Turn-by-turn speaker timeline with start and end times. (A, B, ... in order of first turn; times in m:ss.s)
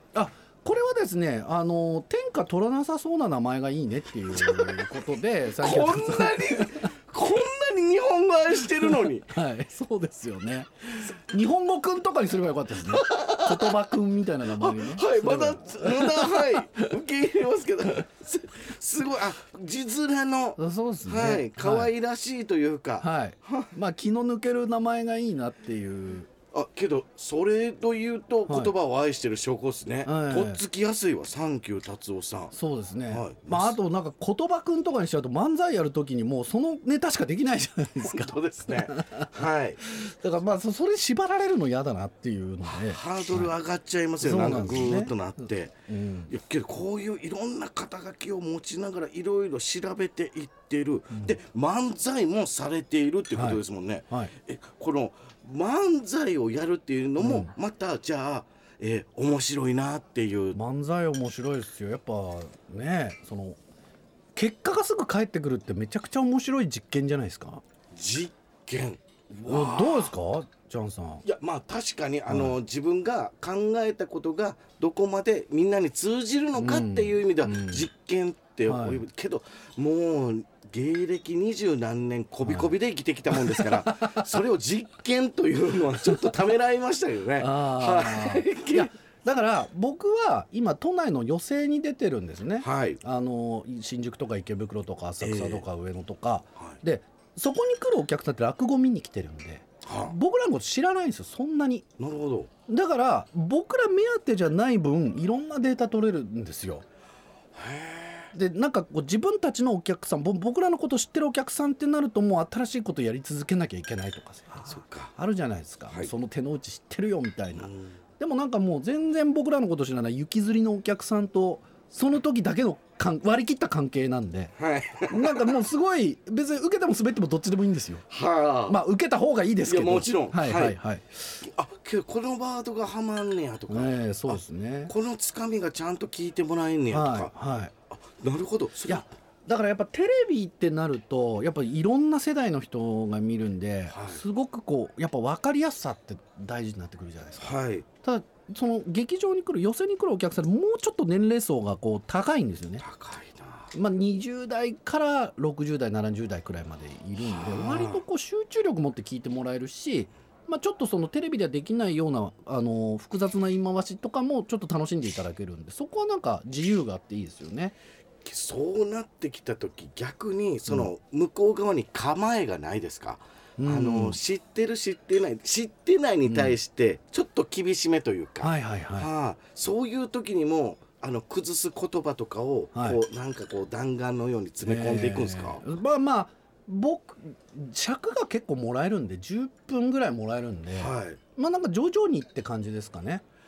0:00.1-0:06.9 A
0:04.3-0:04.9 B
0:05.5-0:09.3 B
0:08.6-0:16.9 A
0:12.9-0:13.8 B
0:14.5-0:23.7 B
0:20.6-0:21.9 A
0:23.0-0:26.3 A
0:26.5-0:32.5 B
0:28.5-0:28.7 A
0:30.0-0:30.6 A
0:32.5-0:39.3 A
0:33.1-0:33.8 B
0:38.0-0:39.8 B
0:39.8-0:43.5 A
0:42.6-0:45.8 B
0:44.2-0:46.3 A
0:46.3-1:00.6 B
0:51.1-0:51.4 A
0:53.3-0:54.3 A
0:57.2-0:57.5 A
1:00.5-1:03.6 A
1:04.3-1:07.6 A
1:07.9-1:10.1 B
1:09.4-1:11.2 A
1:11.2-1:28.9 B
1:12.3-1:12.6 A
1:16.5-1:17.9 A
1:18.6-1:19.0 A
1:22.4-1:22.7 A
1:23.3-1:24.4 A
1:27.4-1:41.9 A
1:32.6-1:33.0 B
1:35.2-1:35.6 B
1:39.8-1:40.2 B
1:42.0-1:42.5 B
1:42.7-1:46.8 A
1:47.5-1:48.3 B
1:48.3-2:04.5 A
1:54.6-1:55.1 B
1:57.5-1:58.0 B
2:04.6-2:05.4 B
2:05.1-2:08.0 A
2:08.1-2:08.8 B
2:08.7-2:11.3 A
2:09.6-2:10.8 B
2:11.4-2:17.3 B
2:13.7-2:14.9 A
2:16.9-2:17.7 A
2:18.0-2:19.1 B
2:18.8-2:32.8 A
2:23.9-2:24.2 B
2:27.4-2:27.8 B
2:32.8-2:33.7 B
2:33.7-2:47.7 A
2:37.2-2:38.0 B
2:48.2-3:05.6 B
2:53.6-2:54.2 A
2:56.2-2:56.6 A
2:58.4-2:59.1 A
3:02.7-3:03.0 A
3:04.6-3:13.2 A
3:10.7-3:11.2 B